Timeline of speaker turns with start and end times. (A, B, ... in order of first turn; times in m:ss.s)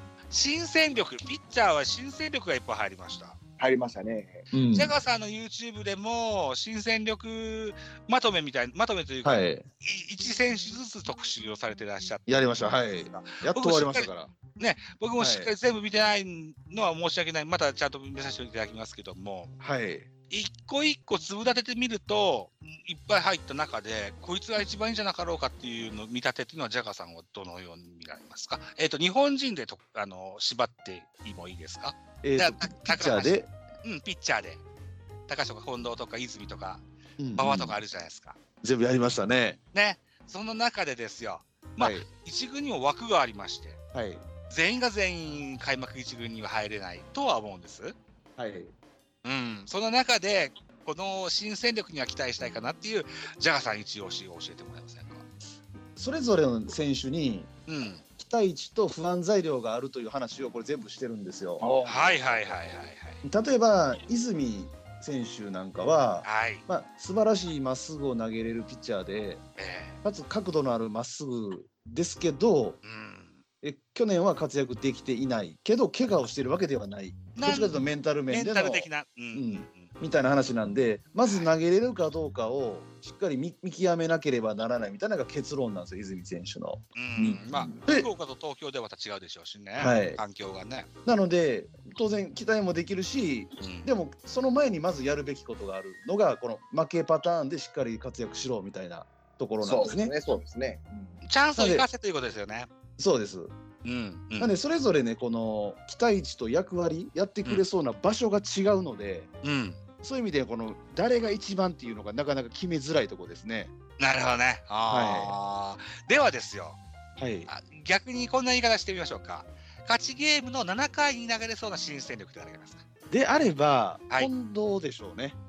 0:00.3-0:03.4 A
0:03.6-0:04.5 B
0:04.5-0:04.9 C
0:04.7-0:19.6 A
0:09.2-0:09.6 C
0:12.3-0:14.3 C
0:15.2-0:15.5 C
0:19.6-0:20.1 C
0:20.3-0:34.6 A
0:32.2-0:33.5 C
0:35.3-0:36.8 A
0:37.2-0:37.8 C
0:37.3-0:38.4 A
0:38.6-0:39.6 C
0:39.7-0:43.8 A
0:41.8-0:42.1 C
0:43.9-0:44.2 C
0:44.5-0:48.0 A
0:48.4-0:48.7 C
0:49.2-0:55.2 A
0:55.9-0:57.5 C
0:57.7-0:58.0 A
0:58.2-1:01.7 C
1:01.6-1:02.8 B
1:01.8-1:03.2 A
1:03.2-1:09.4 C
1:06.2-1:06.7 A
1:09.6-1:10.0 A
1:10.0-1:12.8 C
1:12.8-1:13.4 A
1:13.6-1:28.1 C
1:17.4-1:19.9 A
1:21.2-1:21.5 A
1:26.9-1:30.9 A
1:29.8-1:30.2 C
1:31.0-1:40.1 C
1:33.6-1:33.9 A
1:39.6-1:41.2 B
1:41.2-1:42.7 A
1:41.6-1:41.9 C
1:43.0-1:43.5 C
1:43.8-1:44.5 A
1:44.4-1:49.3 C
1:49.4-1:49.8 A
1:50.0-1:53.7 C
1:54.0-1:56.8 A
1:54.9-1:55.4 C
1:57.2-1:57.5 C
1:57.5-2:02.8 A
2:03.1-2:05.4 C